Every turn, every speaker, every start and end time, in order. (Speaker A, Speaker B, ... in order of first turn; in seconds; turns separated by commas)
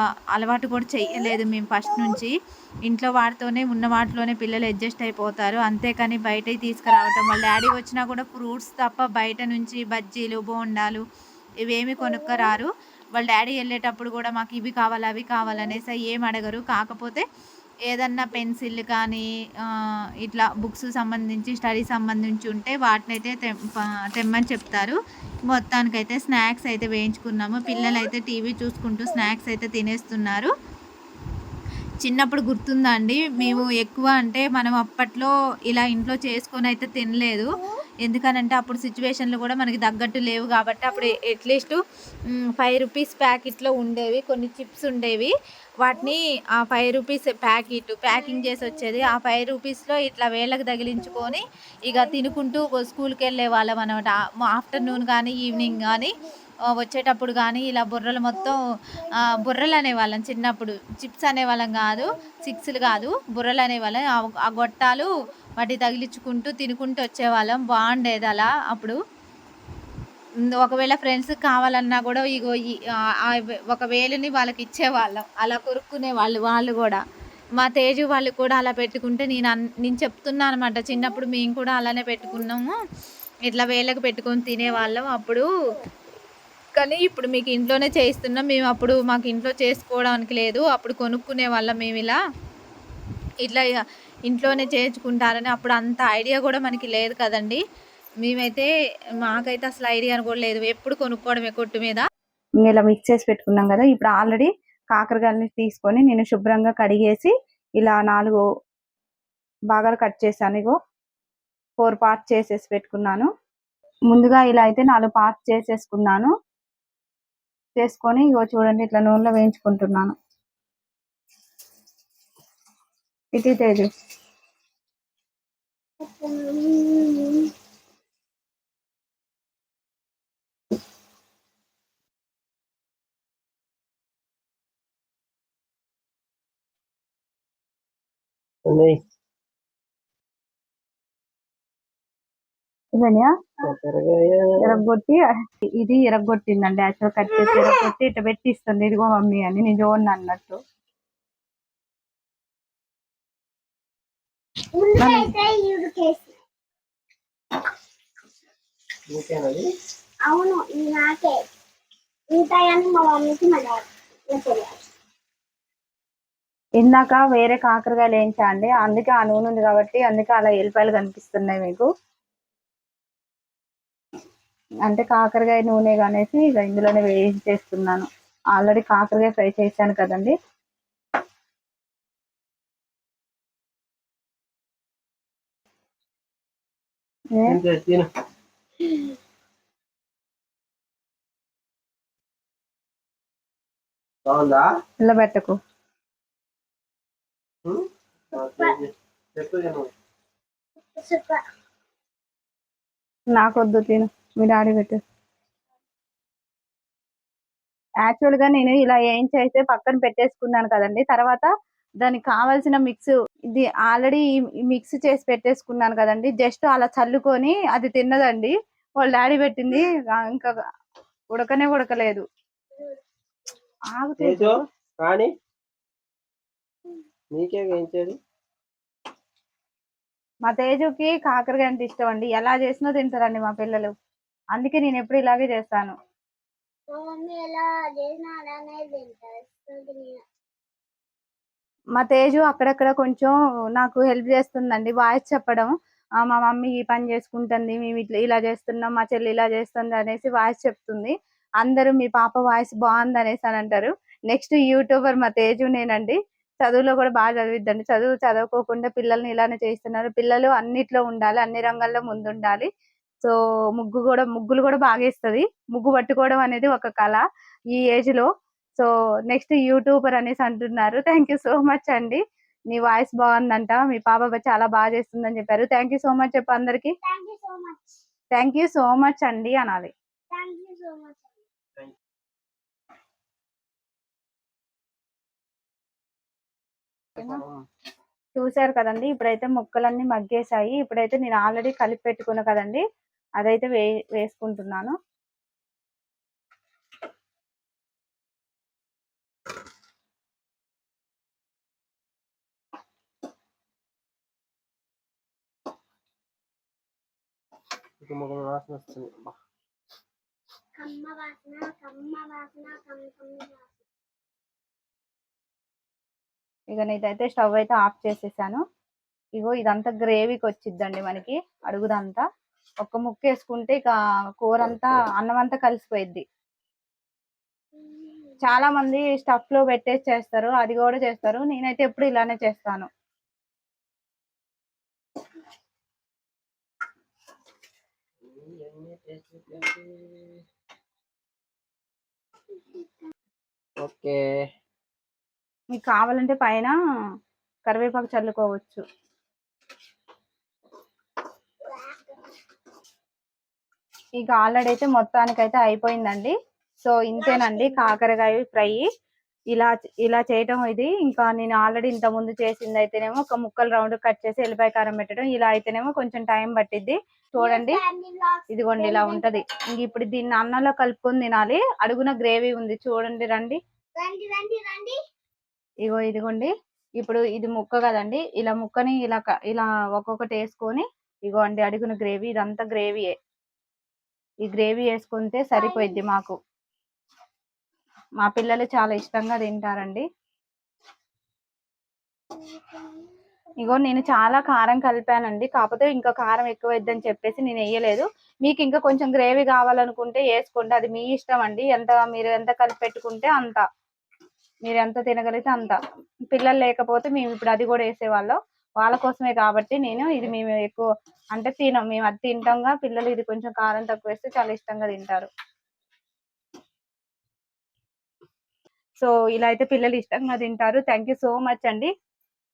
Speaker A: 0.3-2.3, Speaker A: 2.9-11.0, Speaker A: 11.7-17.2, Speaker A: 17.9-25.0, Speaker A: 25.5-30.5, Speaker A: 32.0-41.8, Speaker A: 42.5-56.2, Speaker A: 56.8-58.6, Speaker A: 59.2-69.0, Speaker B: 62.1-62.5, Speaker A: 70.4-77.0, Speaker A: 77.6-82.8, Speaker A: 83.5-85.5, Speaker A: 86.7-92.2, Speaker A: 94.3-97.6, Speaker A: 98.2-102.1, Speaker C: 102.6-108.4, Speaker C: 109.7-110.8, Speaker C: 111.8-113.3, Speaker C: 114.1-116.3, Speaker C: 117.8-120.1, Speaker C: 123.3-123.9, Speaker B: 126.0-127.5, Speaker D: 138.7-139.0, Speaker C: 143.0-143.3, Speaker D: 143.6-144.8, Speaker C: 144.6-145.3, Speaker C: 145.8-150.6, Speaker B: 147.5-147.9, Speaker B: 154.7-156.4, Speaker C: 155.0-155.3, Speaker D: 159.1-159.6, Speaker B: 160.2-161.5, Speaker B: 162.3-164.8, Speaker C: 166.8-171.9, Speaker C: 174.9-180.3, Speaker D: 187.5-188.1, Speaker D: 194.3-194.6, Speaker C: 195.0-195.6, Speaker D: 197.7-199.9, Speaker B: 200.9-201.4, Speaker C: 203.3-205.0, Speaker C: 208.0-211.5, Speaker C: 212.0-220.5, Speaker C: 221.3-222.2, Speaker C: 223.9-224.5, Speaker D: 224.2-225.3, Speaker D: 227.3-228.2, Speaker C: 230.4-233.9, Speaker C: 234.6-235.9, Speaker B: 236.9-240.2, Speaker C: 242.0-262.7, Speaker C: 263.2-267.2, Speaker C: 267.7-276.9, Speaker B: 277.0-277.9, Speaker C: 278.3-279.9, Speaker B: 280.3-281.4, Speaker D: 287.2-287.6, Speaker C: 288.4-292.8, Speaker C: 293.4-294.9, Speaker D: 308.0-309.4, Speaker B: 310.8-313.7, Speaker C: 316.7-318.6, Speaker C: 319.4-322.2, Speaker C: 322.8-326.2, Speaker B: 327.9-328.4, Speaker C: 328.4-332.9, Speaker D: 338.3-340.4, Speaker D: 343.8-344.2, Speaker C: 345.7-346.7, Speaker C: 347.7-348.8, Speaker C: 354.2-358.9, Speaker B: 357.2-357.9, Speaker C: 359.5-367.8, Speaker B: 367.4-369.4, Speaker C: 368.5-373.6, Speaker B: 374.0-375.0, Speaker C: 375.9-383.1, Speaker C: 384.4-386.4, Speaker B: 385.6-386.0, Speaker C: 388.2-390.1, Speaker B: 392.5-393.0, Speaker C: 393.6-403.6, Speaker C: 404.7-405.8, Speaker C: 406.3-415.3, Speaker C: 419.0-421.9